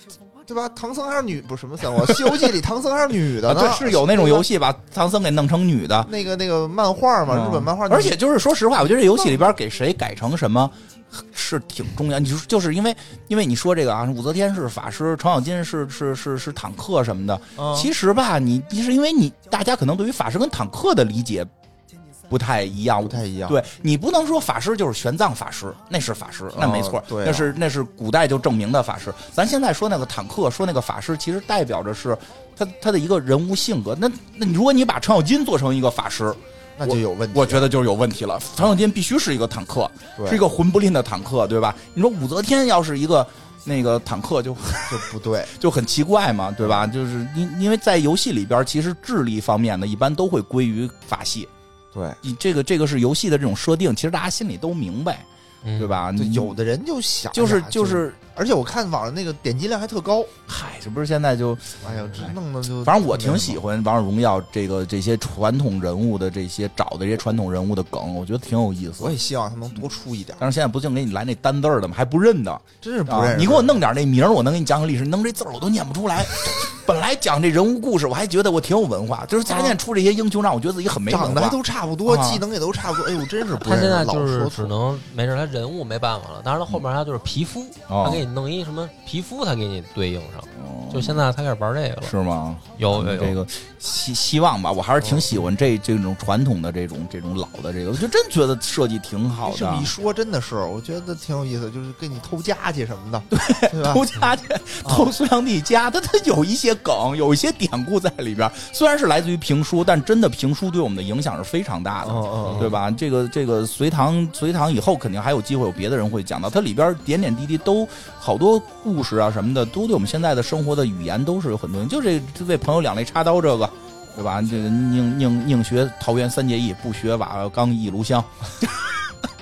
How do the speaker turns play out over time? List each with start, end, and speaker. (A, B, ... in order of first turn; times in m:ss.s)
0:00.5-0:04.5 A
0:03.4-0:06.1 B
0:06.0-0:08.2 A
0:07.3-0:21.5 B
0:17.6-0:17.9 A
0:22.3-0:51.5 B
0:23.1-0:23.6 A
0:26.5-0:27.5 A
0:36.8-0:37.7 A
0:40.2-0:40.4 A
0:44.9-0:45.5 A
0:51.9-0:52.2 A
0:52.2-0:55.3 B
0:55.6-0:56.0 C
0:55.8-0:56.6 B
0:56.2-1:00.3 A
0:57.3-0:58.2 B
1:00.5-1:09.2 B
1:01.8-1:03.6 A
1:09.0-1:10.5 A
1:10.4-1:22.4 B
1:12.8-1:13.8 A
1:19.5-1:19.8 A
1:21.1-1:24.7 A
1:23.6-1:32.1 C
1:27.9-1:28.2 B
1:30.5-1:31.2 B
1:32.0-1:39.9 B
1:32.8-1:33.4 C
1:39.4-1:44.0 A
1:43.3-2:09.1 B
1:44.8-1:45.1 A
1:52.0-1:52.8 A
1:52.5-1:52.7 C